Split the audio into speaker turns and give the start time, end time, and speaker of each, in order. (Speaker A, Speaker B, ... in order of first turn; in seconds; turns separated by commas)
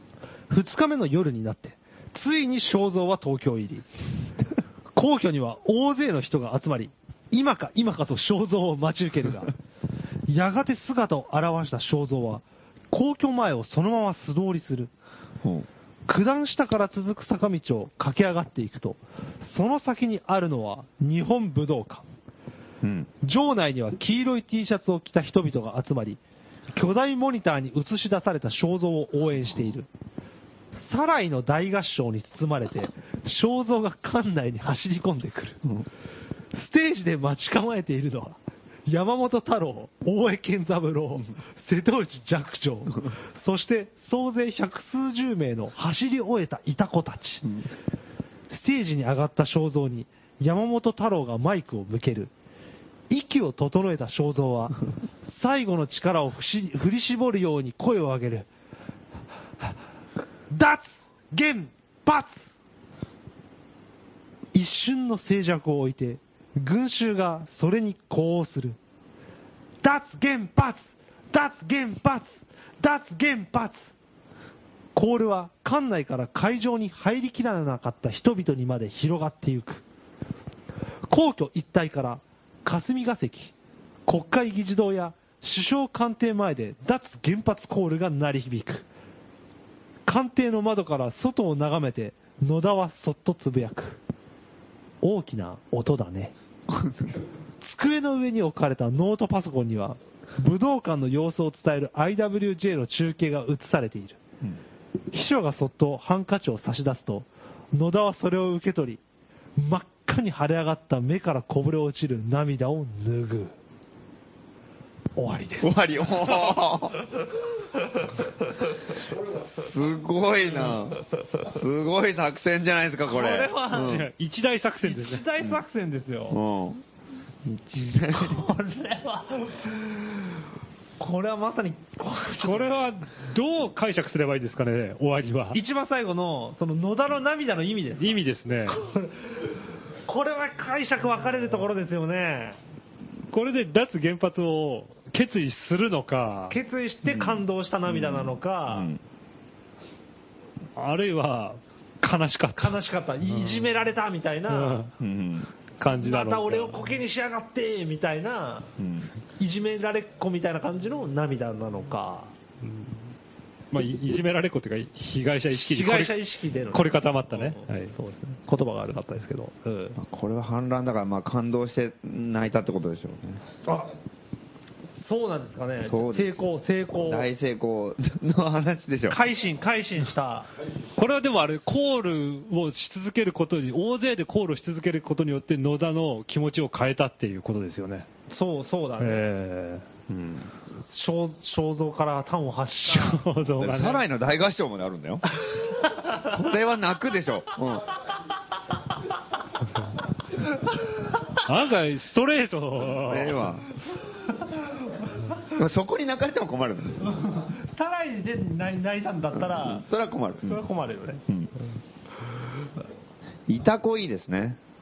Speaker A: 0.5-3.9, Speaker A: 5.0-9.5, Speaker A: 10.3-14.9, Speaker A: 16.1-22.1, Speaker B: 22.8-23.1, Speaker A: 23.2-26.2, Speaker A: 26.7-29.9, Speaker A: 30.8-35.6, Speaker A: 36.5-47.5, Speaker A: 48.5-52.3, Speaker A: 53.1-58.5, Speaker A: 60.5-62.5, Speaker A: 64.5-68.8, Speaker A: 69.8-73.9, Speaker A: 75.0-79.8, Speaker A: 81.1-83.5, Speaker A: 84.1-88.9, Speaker A: 90.1-94.0, Speaker A: 95.0-96.3, Speaker B: 96.7-97.1, Speaker A: 97.6-104.2, Speaker A: 105.1-109.0, Speaker A: 109.6-113.5, Speaker A: 115.2-115.8, Speaker B: 115.6-117.0, Speaker B: 119.5-124.1, Speaker A: 123.1-124.1, Speaker C: 123.7-125.2, Speaker A: 124.8-126.4, Speaker B: 126.3-126.8, Speaker B: 127.5-128.5, Speaker A: 127.8-130.0, Speaker A: 131.0-132.8, Speaker C: 132.4-135.6, Speaker A: 135.5-139.4, Speaker C: 138.0-138.8, Speaker A: 140.1-142.6, Speaker C: 143.3-146.6, Speaker A: 146.5-148.9, Speaker B: 147.9-149.0, Speaker C: 150.8-153.7, Speaker A: 152.6-154.8, Speaker C: 154.5-154.9, Speaker B: 155.0-155.5, Speaker C: 155.8-156.9, Speaker A: 156.0-158.7, Speaker B: 158.8-159.1, Speaker A: 159.4-162.3, Speaker C: 162.6-163.0, Speaker C: 163.7-167.9, Speaker A: 165.6-170.0, Speaker B: 170.0-173.4, Speaker A: 173.7-173.9, Speaker A: 175.0-177.3, Speaker B: 175.8-176.5, Speaker B: 177.0-179.2, Speaker A: 179.1-180.5, Speaker C: 181.0-188.1, Speaker A: 188.3-189.3, Speaker C: 189.0-189.8, Speaker B: 190.1-190.5, Speaker A: 190.7-193.3, Speaker C: 192.9-194.1, Speaker B: 193.6-195.4, Speaker B: 196.1-197.9, Speaker C: 201.4-203.5, Speaker B: 202.9-203.7, Speaker B: 205.5-207.2, Speaker A: 207.1-209.9, Speaker B: 209.3-210.6, Speaker A: 210.4-211.2, Speaker B: 213.5-214.6